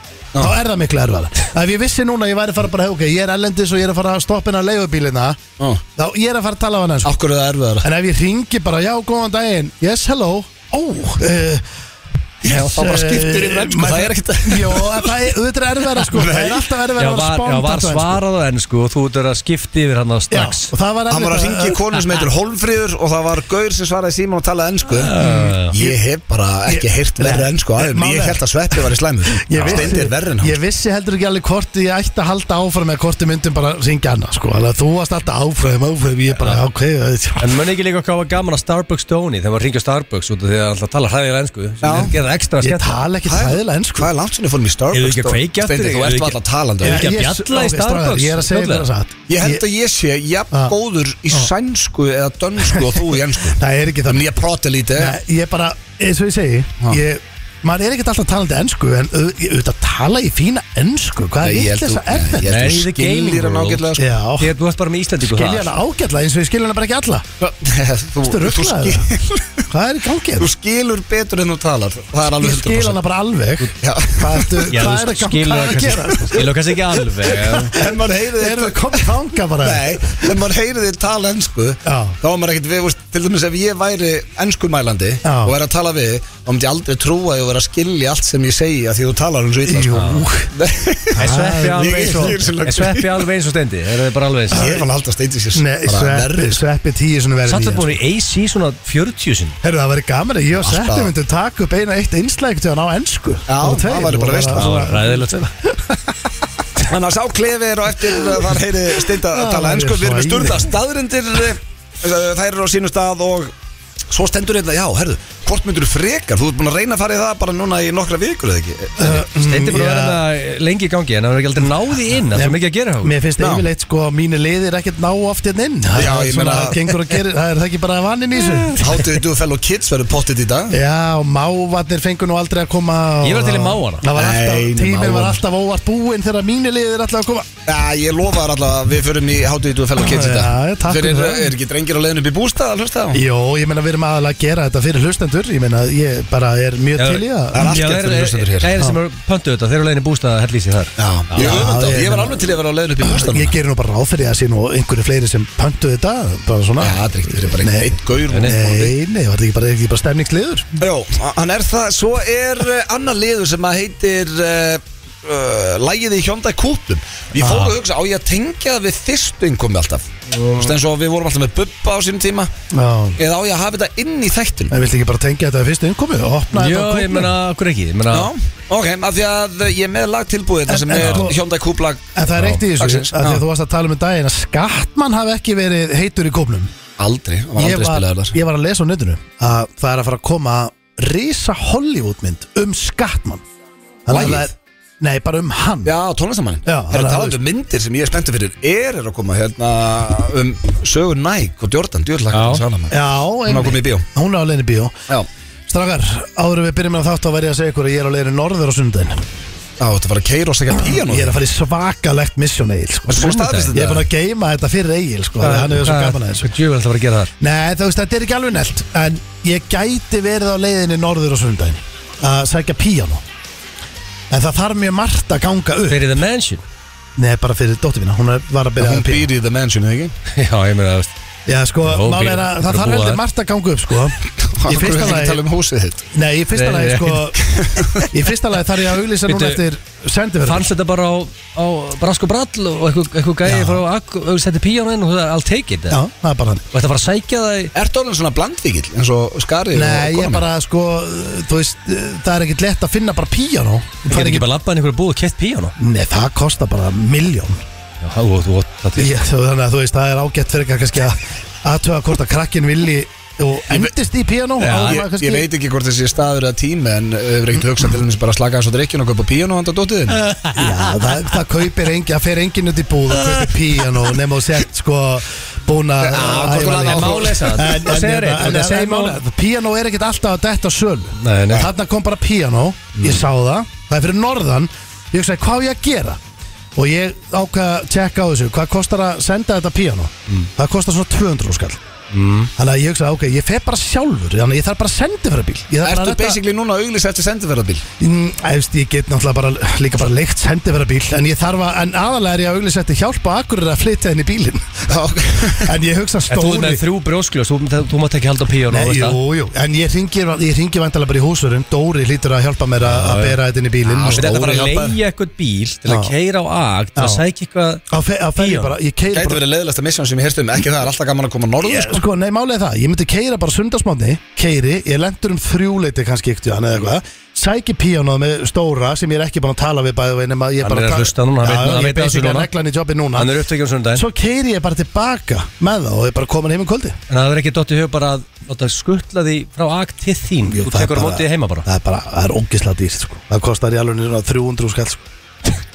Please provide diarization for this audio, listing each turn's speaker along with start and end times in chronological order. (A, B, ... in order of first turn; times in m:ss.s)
0:00.4-0:05.4 A
0:06.0-0:07.1 A
0:07.0-0:07.9 B
0:07.8-0:11.6 A
0:12.4-0:15.2 B
0:12.4-0:18.2 A
0:16.0-0:16.7 B
0:17.0-0:20.7 C
0:20.3-0:21.8 A
0:21.1-0:25.1 B
0:24.9-0:25.7 C
0:25.2-0:26.0 A
0:25.7-0:30.6 B
0:26.7-0:37.6 A
0:29.5-0:29.9 C
0:37.4-0:43.0 C
0:41.8-0:42.1 B
0:42.6-0:44.1 A
0:43.2-0:47.1 B
0:44.9-0:48.9 C
0:46.8-0:49.6 A
0:49.3-0:55.2 B
0:52.6-0:54.3 A
0:54.9-1:02.6 A
1:01.4-1:04.1 B
1:02.4-1:03.8 C
1:04.0-1:04.5 A
1:04.4-1:05.7 C
1:05.2-1:07.3 A
1:07.4-1:09.6 B
1:08.2-1:09.1 A
1:09.7-1:10.5 A
1:10.4-1:13.0 B
1:12.4-1:16.5 A
1:13.8-1:14.7 B
1:14.7-1:17.8 C
1:16.1-1:16.5 B
1:17.2-1:33.2 B
1:17.6-1:20.4 A
1:21.8-1:22.2 A
1:25.2-1:25.5 A
1:29.6-1:30.5 A
1:29.9-1:30.2 C
1:31.1-1:32.5 A
1:31.2-1:34.7 C
1:34.5-1:36.6 B
1:34.5-1:34.8 A
1:35.5-1:38.0 A
1:37.4-1:39.6 C
1:39.6-1:45.7 A
1:40.6-1:41.1 B
1:43.5-1:44.9 B
1:44.5-1:45.5 C
1:46.8-1:53.5 B
1:49.1-1:50.7 A
1:54.1-1:59.2 B
1:59.0-2:00.2 A
1:59.3-2:03.1 C
2:02.3-2:08.9 A
2:03.4-2:03.6 B
2:05.9-2:06.8 B
2:08.8-2:10.8 B
2:10.7-2:17.5 A
2:13.2-2:14.0 C
2:14.1-2:15.4 B
2:17.6-2:23.2 B
2:20.0-2:21.5 A
2:23.1-2:27.7 A
2:27.0-2:31.7 C
2:27.5-2:28.7 B
2:31.0-2:33.5 B
2:31.4-2:40.8 A
2:36.8-2:38.9 B
2:38.3-2:38.6 C
2:40.8-2:52.5 B
2:50.3-2:50.6 C
2:52.7-2:53.2 A
2:53.2-2:54.8 B
2:54.7-2:57.3 A
2:56.5-2:58.3 C
2:58.1-3:03.4 B
3:00.7-3:01.4 A
3:01.0-3:01.3 C
3:02.1-3:06.7 A
3:07.0-3:08.4 B
3:07.6-3:13.4 A
3:14.0-3:15.9 A
3:14.1-3:14.5 B
3:15.8-3:24.0 B
3:16.6-3:17.4 A
3:22.3-3:22.6 C
3:22.9-3:24.9 A
3:25.7-3:29.2 A
3:29.8-3:31.4 B
3:30.8-3:36.5 A
3:33.1-3:34.1 B
3:33.1-3:33.7 C
3:35.4-3:37.3 C
3:37.4-3:43.2 A
3:44.3-3:46.0 A
3:45.9-3:46.6 C
3:47.2-3:49.3 A
3:48.8-3:50.1 B
3:50.3-3:51.1 C
3:51.4-3:55.4 A
3:51.8-3:53.2 C
3:54.4-3:56.0 B
3:56.1-4:00.7 A
3:56.5-3:57.3 C
3:57.4-3:58.1 B
3:59.2-3:59.6 C
4:00.4-4:06.0 C
4:03.4-4:03.8 A
4:05.9-4:06.6 A
4:06.7-4:07.7 C
4:07.7-4:10.4 B
4:09.7-4:14.5 A
4:14.1-4:15.7 C
4:15.8-4:17.6 A
4:18.0-4:19.1 C
4:19.0-4:25.5 A
4:24.6-4:25.0 C
4:24.7-4:30.2 B
4:30.1-4:31.3 C
4:30.5-4:46.2 A
4:33.1-4:33.5 C
4:36.0-4:37.8 B
4:36.5-4:39.2 C
4:41.2-4:41.7 C
4:43.0-4:43.2 C
4:46.7-4:51.8 A
4:52.1-4:52.5 C
4:52.6-4:56.4 A
4:55.8-4:57.8 B
4:58.0-5:05.0 A
5:04.9-5:05.7 B
5:05.6-5:06.8 A
5:06.3-5:09.2 C
5:08.7-5:14.3 A
5:12.8-5:13.4 C
5:13.8-5:15.0 B
5:14.1-5:17.8 C
5:15.9-5:16.1 A
5:17.0-5:17.2 A
5:17.9-5:19.4 A
5:18.4-5:18.7 C
5:19.1-5:22.0 B
5:21.6-5:33.3 A
5:30.6-5:32.5 C
5:33.2-5:34.0 C
5:33.9-5:37.0 A
5:37.1-5:41.6 C
5:40.4-5:45.5 A